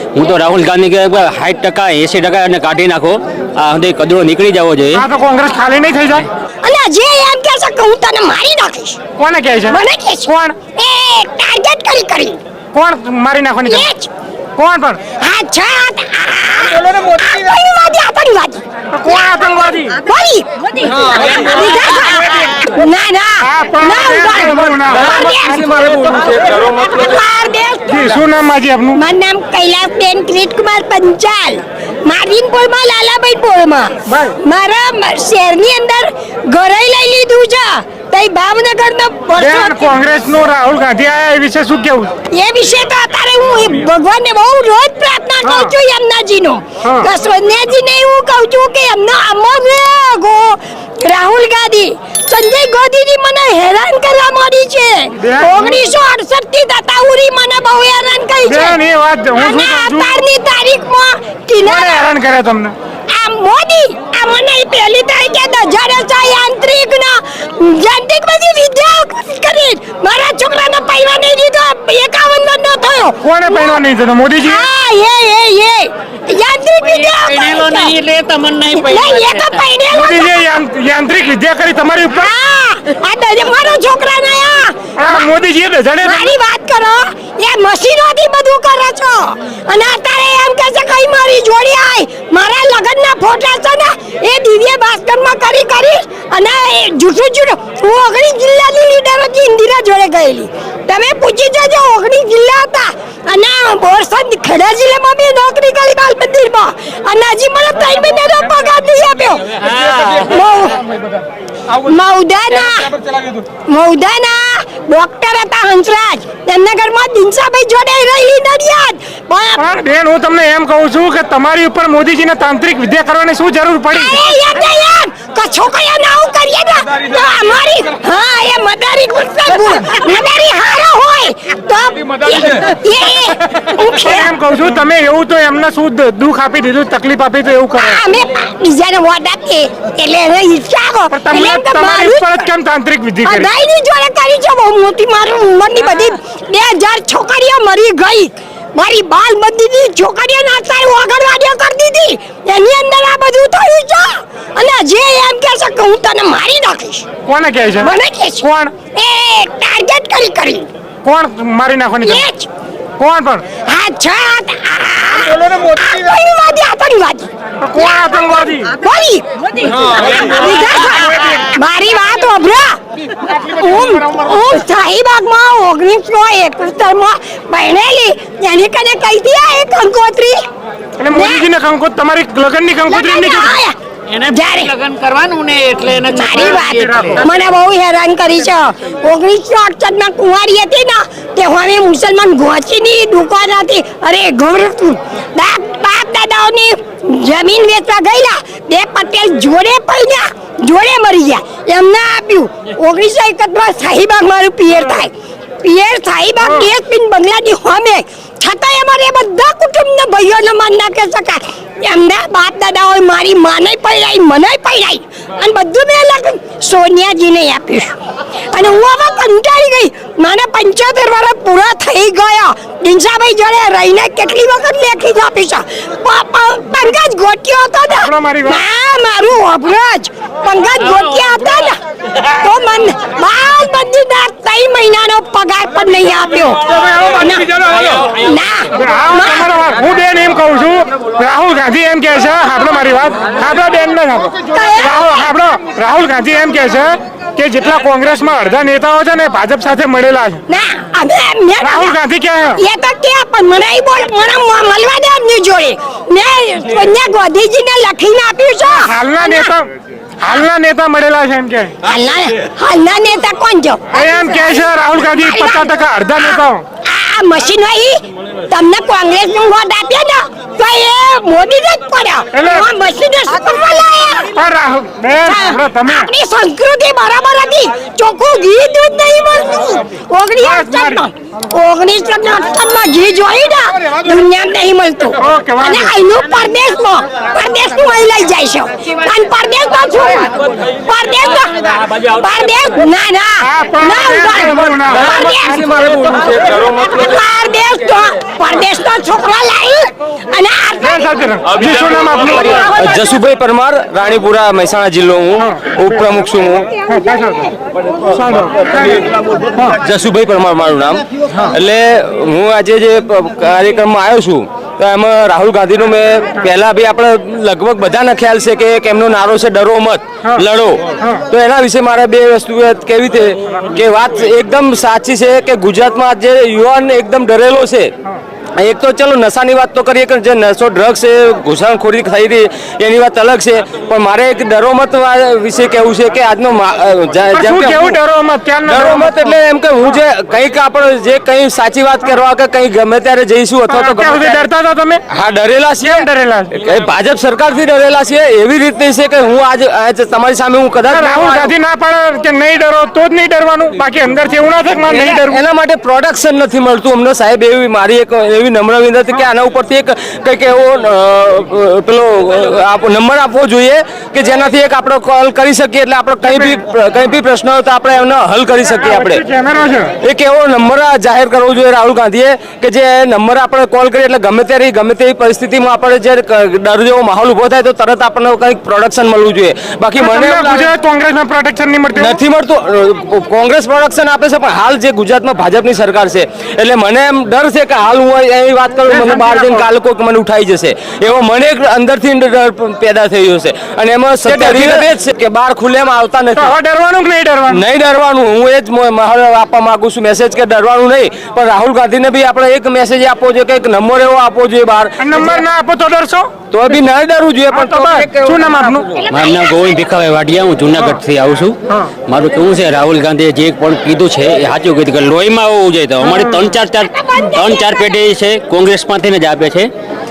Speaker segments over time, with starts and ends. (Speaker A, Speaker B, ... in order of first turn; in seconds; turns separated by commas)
Speaker A: 0.1-5.0, Speaker B: 4.9-6.2, Speaker C: 6.6-9.0, Speaker B: 9.2-10.5, Speaker C: 9.7-12.4, Speaker B: 12.7-13.9, Speaker C: 13.7-14.1, Speaker B: 14.6-15.0, Speaker C: 15.2-25.7, Speaker B: 18.9-20.0, Speaker D: 20.9-21.3, Speaker B: 22.1-22.5, Speaker B: 23.4-25.7, Speaker D: 24.9-27.2, Speaker C: 26.4-28.1, Speaker B: 27.9-29.0, Speaker C: 28.9-39.8, Speaker B: 34.1-34.3, Speaker B: 39.4-42.1, Speaker C: 42.3-58.8, Speaker B: 45.4-45.7, Speaker B: 46.8-47.1, Speaker B: 55.2-55.8, Speaker B: 58.5-60.2, Speaker C: 59.4-62.1, Speaker B: 61.6-62.7, Speaker C: 63.1-73.8, Speaker B: 73.2-74.7, Speaker C: 74.4-78.0, Speaker E: 77.0-79.5, Speaker C: 78.7-80.5, Speaker B: 79.9-82.3, Speaker C: 82.1-85.2, Speaker B: 85.0-86.3, Speaker C: 86.0-110.8, Speaker C: 111.7-112.9, Speaker C: 113.7-119.6, Speaker B: 119.6-124.1, Speaker C: 123.9-134.3, Speaker B: 134.0-138.0, Speaker C: 137.7-142.4, Speaker B: 141.1-143.5, Speaker C: 143.2-157.1, Speaker B: 157.2-158.7, Speaker C: 157.8-160.7, Speaker B: 161.0-162.2, Speaker C: 162.0-162.5, Speaker B: 163.0-163.4, Speaker C: 163.6-180.4, Speaker B: 167.6-168.7, Speaker B: 181.0-183.6, Speaker C: 181.1-181.4, Speaker C: 182.9-184.7, Speaker E: 184.1-187.1, Speaker C: 186.0-217.9, Speaker C: 218.5-239.5, Speaker B: 227.9-228.6, Speaker B: 238.7-250.4, Speaker C: 244.5-245.3, Speaker C: 250.5-251.9, Speaker B: 251.6-252.6, Speaker C: 252.6-259.5, Speaker B: 258.8-259.7, Speaker B: 260.2-261.8, Speaker C: 261.8-274.3, Speaker B: 263.9-266.6, Speaker B: 272.3-272.7, Speaker B: 274.3-276.1, Speaker C: 275.2-295.7, Speaker B: 280.4-281.0, Speaker B: 285.2-285.9, Speaker B: 293.4-295.1, Speaker D: 294.9-297.2, Speaker C: 296.7-301.1, Speaker B: 300.8-302.7, Speaker D: 301.5-306.7, Speaker B: 306.8-307.5, Speaker D: 307.9-327.9, Speaker B: 308.1-308.9, Speaker B: 321.0-321.2, Speaker D: 328.6-338.0, Speaker B: 337.3-339.3, Speaker D: 338.6-344.4, Speaker B: 343.7-345.0, Speaker D: 345.1-351.5, Speaker B: 345.8-346.5, Speaker B: 350.9-355.4, Speaker D: 354.9-369.2, Speaker B: 368.8-369.9, Speaker D: 370.0-380.7, Speaker B: 380.0-382.1, Speaker D: 381.9-396.5, Speaker B: 388.9-389.6, Speaker B: 394.2-394.9, Speaker B: 396.4-397.6, Speaker D: 397.5-405.4, Speaker B: 405.0-406.3, Speaker D: 406.5-409.1, Speaker B: 407.5-408.9, Speaker C: 409.0-409.7, Speaker A: 409.1-419.7, Speaker B: 410.7-411.0, Speaker B: 416.0-416.4, Speaker C: 416.8-417.9